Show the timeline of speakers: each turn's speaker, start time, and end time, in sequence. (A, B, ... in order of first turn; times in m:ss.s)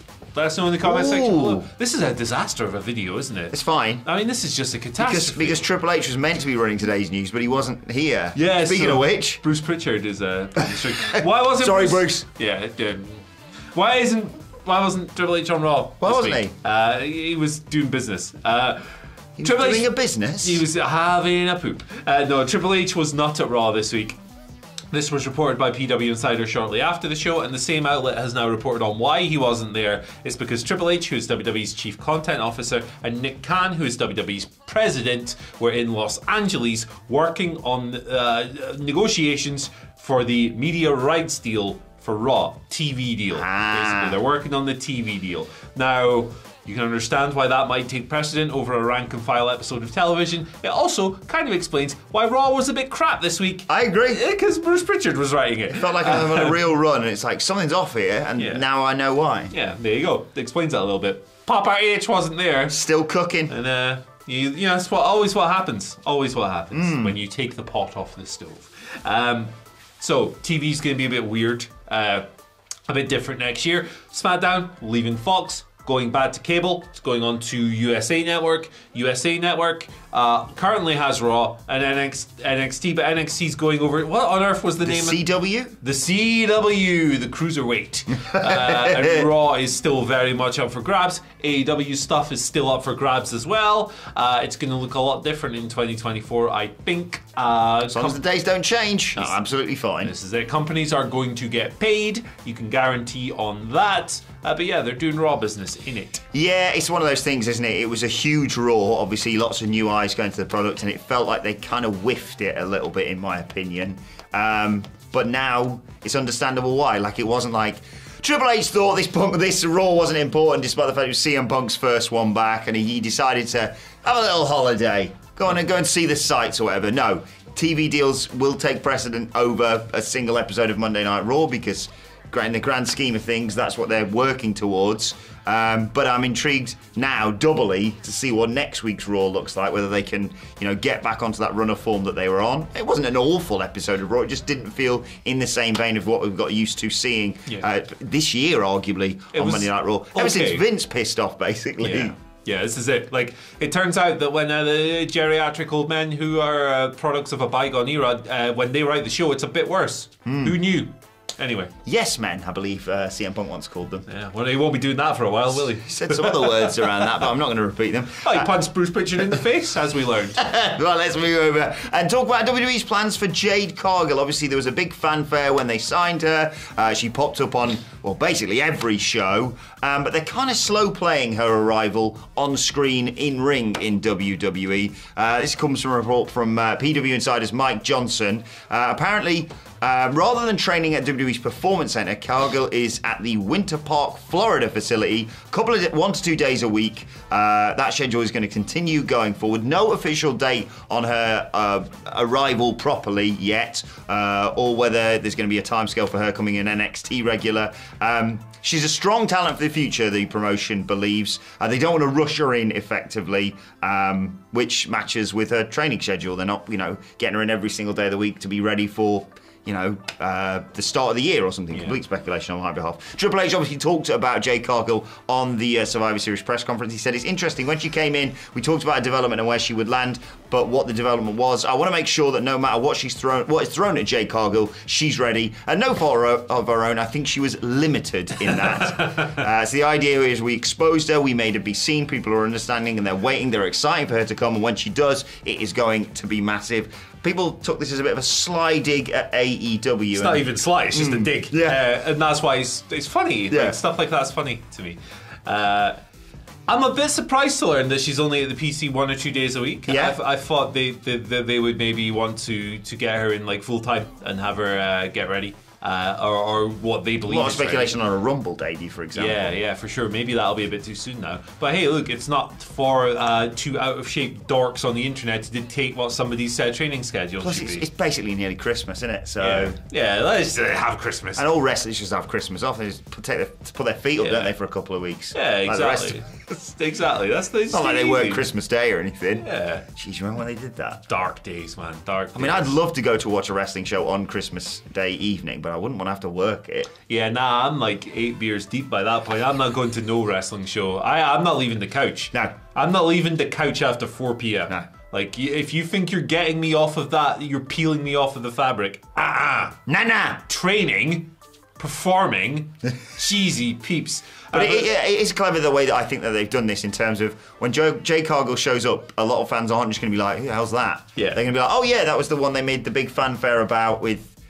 0:00.4-0:05.7 A
0:00.8-0:01.7 B
0:03.5-0:04.0 B
0:05.0-0:09.4 B
0:08.4-0:18.9 A
0:11.0-0:12.3 B
0:16.0-0:16.5 B
0:19.4-0:20.6 B
0:19.4-0:24.2 A
0:24.9-0:56.6 A
0:43.3-0:44.2 B
0:53.7-0:54.2 B
0:55.7-0:59.5 B
0:58.4-0:58.6 A
0:59.5-1:02.8 A
1:02.7-1:03.5 B
1:03.5-1:12.3 A
1:06.7-1:07.2 B
1:12.9-1:25.2 A
1:24.8-1:25.8 B
1:25.8-1:38.2 A
1:28.2-1:29.3 B
1:37.9-1:40.1 B
1:40.0-1:46.2 A
1:46.3-2:32.2 B
2:29.3-2:30.6 A
2:31.8-2:41.7 A
2:40.3-2:40.6 B
2:41.8-2:44.0 B
2:44.1-2:47.1 A
2:45.6-2:48.6 B
2:48.2-2:50.4 A
2:50.4-4:11.8 B
3:41.7-3:42.0 A
4:10.1-4:16.0 A
4:13.5-4:13.8 B
4:16.7-4:28.0 A
4:19.9-4:20.2 B
4:27.3-4:29.6 B
4:29.1-4:37.8 A
4:37.4-4:39.8 B
4:39.4-4:41.4 A
4:41.4-4:46.2 B
4:44.2-4:44.5 A
4:45.3-4:48.5 A
4:47.7-4:51.0 B
4:49.4-4:49.8 A
4:51.1-4:52.8 A
4:52.4-4:56.9 B
4:57.1-5:09.8 A
5:09.9-5:10.4 B
5:10.5-5:14.9 A
5:14.5-5:24.4 B